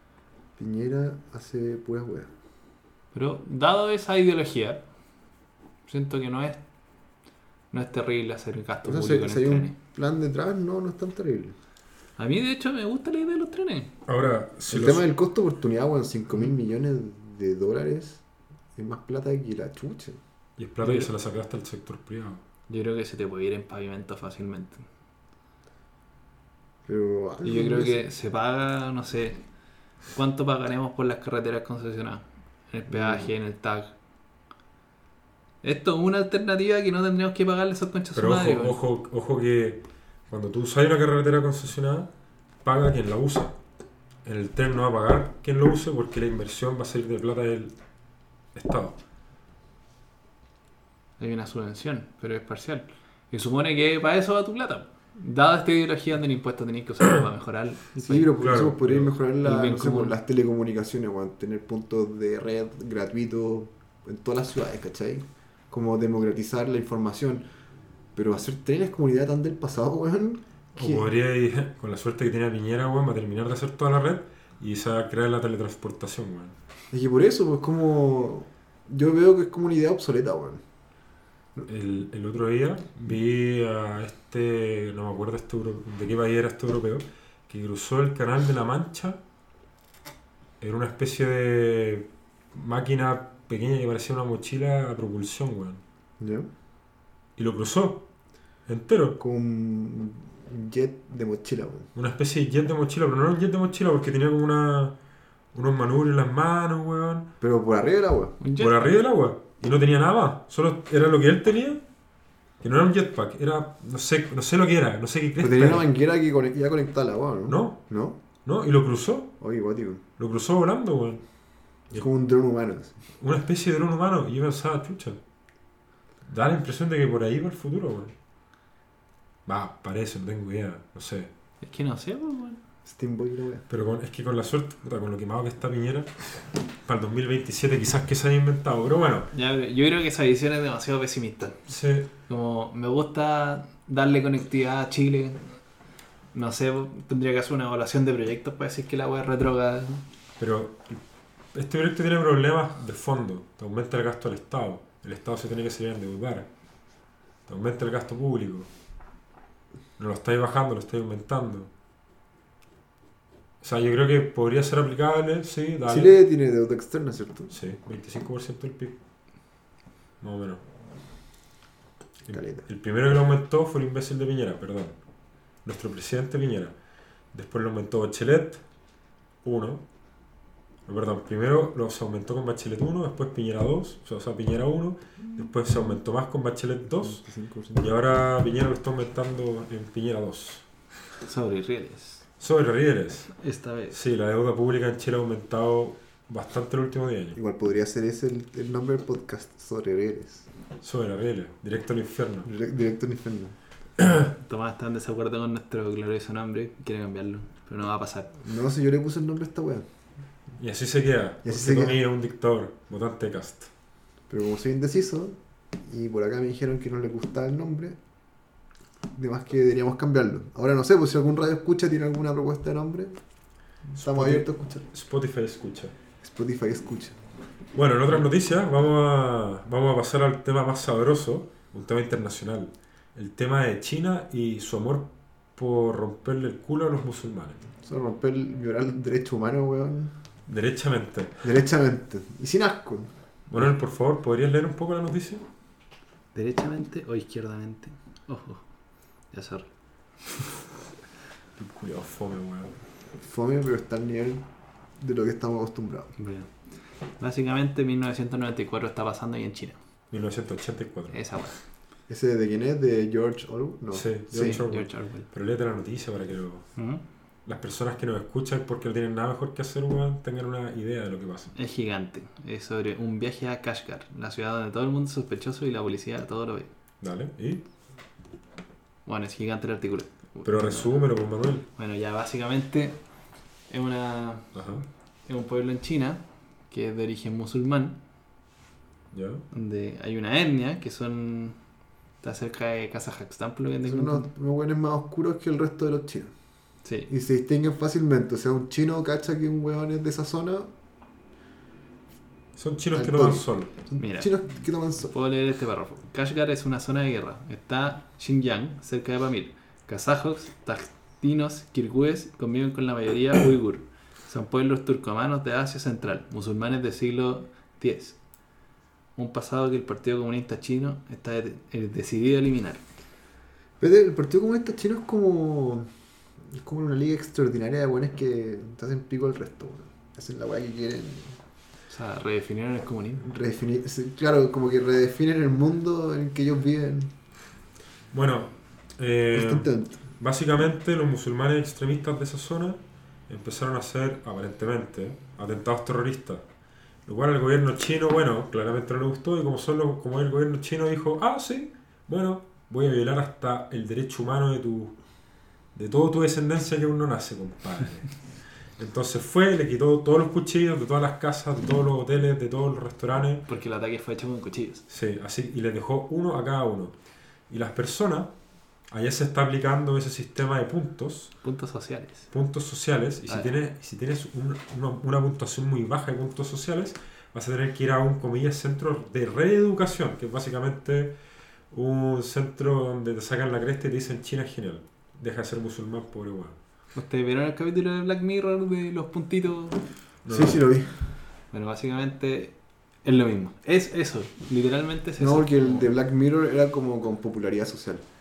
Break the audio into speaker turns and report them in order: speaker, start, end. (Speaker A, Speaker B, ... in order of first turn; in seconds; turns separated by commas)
Speaker A: 0.6-2.3, Speaker B: 3.1-4.8, Speaker B: 5.9-6.6, Speaker B: 7.7-9.8, Speaker A: 8.8-11.6, Speaker B: 12.2-13.9, Speaker C: 14.1-15.1, Speaker A: 14.7-18.2, Speaker A: 18.8-20.2, Speaker C: 20.6-22.4, Speaker B: 20.8-21.1, Speaker B: 22.7-24.8, Speaker A: 26.9-28.0, Speaker B: 27.4-29.4, Speaker B: 30.1-33.9, Speaker A: 32.9-33.3, Speaker B: 35.6-38.8, Speaker C: 38.1-42.1, Speaker C: 42.6-43.6, Speaker C: 44.2-47.7, Speaker C: 48.5-49.0, Speaker B: 51.2-58.3, Speaker A: 58.0-67.5, Speaker C: 58.4-59.1, Speaker B: 59.4-60.2, Speaker A: 68.2-71.1, Speaker C: 70.8-76.6, Speaker A: 76.9-80.6, Speaker C: 81.7-89.2, Speaker C: 90.6-95.8, Speaker A: 96.2-96.5, Speaker C: 97.4-98.0, Speaker C: 98.7-99.2, Speaker A: 99.2-101.9, Speaker C: 102.0-105.0, Speaker C: 105.5-107.3, Speaker A: 107.4-108.4, Speaker B: 108.4-109.0, Speaker C: 108.6-111.8, Speaker C: 112.6-115.9, Speaker A: 115.4-118.2, Speaker C: 117.5-117.8, Speaker C: 118.4-119.3, Speaker A: 119.4-120.0, Speaker C: 120.2-121.2, Speaker A: 121.9-123.0, Speaker C: 123.2-125.2, Speaker C: 126.3-128.2, Speaker C: 129.5-131.3, Speaker B: 131.6-132.6, Speaker A: 132.9-133.7, Speaker C: 133.7-136.2, Speaker C: 136.8-139.3, Speaker B: 139.3-141.7, Speaker C: 141.7-142.1, Speaker B: 142.3-145.6, Speaker B: 146.3-150.0, Speaker C: 150.4-151.0, Speaker C: 151.5-156.5, Speaker C: 157.5-158.7, Speaker C: 160.0-161.7, Speaker C: 163.6-166.1, Speaker A: 165.9-167.5, Speaker C: 167.5-168.9, Speaker C: 170.2-170.6, Speaker C: 172.3-175.0, Speaker A: 172.3-172.7, Speaker C: 175.7-176.8, Speaker C: 177.3-178.6, Speaker C: 179.4-179.8, Speaker C: 180.9-187.2, Speaker A: 186.9-187.9, Speaker C: 187.7-190.7, Speaker B: 191.2-192.2, Speaker C: 192.4-193.3, Speaker B: 193.3-194.0, Speaker C: 193.9-197.4, Speaker A: 197.4-200.5, Speaker C: 200.8-202.5, Speaker A: 202.4-203.6, Speaker C: 204.0-204.3, Speaker B: 204.2-208.4, Speaker A: 208.4-209.9, Speaker C: 210.6-213.7, Speaker A: 211.4-212.0, Speaker A: 214.3-218.0, Speaker A: 219.1-223.2, Speaker C: 223.9-225.9, Speaker A: 224.0-224.9, Speaker A: 226.2-227.2, Speaker C: 227.8-237.6, Speaker A: 237.8-240.2, Speaker C: 240.5-241.4, Speaker A: 241.4-243.1, Speaker C: 243.5-245.4, Speaker B: 246.3-248.6, Speaker B: 249.3-249.7, Speaker C: 251.6-252.7, Speaker A: 253.2-254.4, Speaker A: 255.0-256.1, Speaker B: 256.2-256.5, Speaker B: 257.2-259.8, Speaker C: 260.1-261.2, Speaker B: 261.1-261.6, Speaker A: 262.1-264.6, Speaker C: 263.9-266.7, Speaker B: 264.3-265.3, Speaker B: 266.8-267.0, Speaker C: 267.5-271.5, Speaker B: 271.6-276.7, Speaker C: 277.0-277.6, Speaker B: 279.1-280.9, Speaker C: 280.4-281.7, Speaker B: 281.8-283.0, Speaker B: 283.7-284.5, Speaker C: 284.5-284.9, Speaker B: 285.3-288.0, Speaker C: 289.1-289.4, Speaker B: 289.5-291.6, Speaker B: 292.2-294.3, Speaker A: 293.9-296.3, Speaker B: 296.9-297.1, Speaker A: 297.1-300.7, Speaker C: 302.6-303.7, Speaker A: 302.9-305.1, Speaker B: 304.0-304.4, Speaker B: 305.1-318.2, Speaker B: 319.2-322.8, Speaker A: 323.8-325.9, Speaker A: 326.5-331.4, Speaker B: 331.9-333.3, Speaker A: 333.2-337.1, Speaker C: 338.1-346.4, Speaker A: 339.3-340.0, Speaker C: 347.1-354.9, Speaker C: 355.8-358.1, Speaker C: 358.8-363.5, Speaker B: 363.5-364.9, Speaker C: 364.9-366.9, Speaker C: 367.5-368.3, Speaker C: 368.9-371.3, Speaker B: 371.4-372.3, Speaker C: 372.3-381.1, Speaker B: 373.3-373.6, Speaker C: 381.7-386.6, Speaker B: 386.9-389.8, Speaker C: 390.2-390.6, Speaker A: 390.3-391.0, Speaker B: 391.5-395.9, Speaker A: 395.2-398.1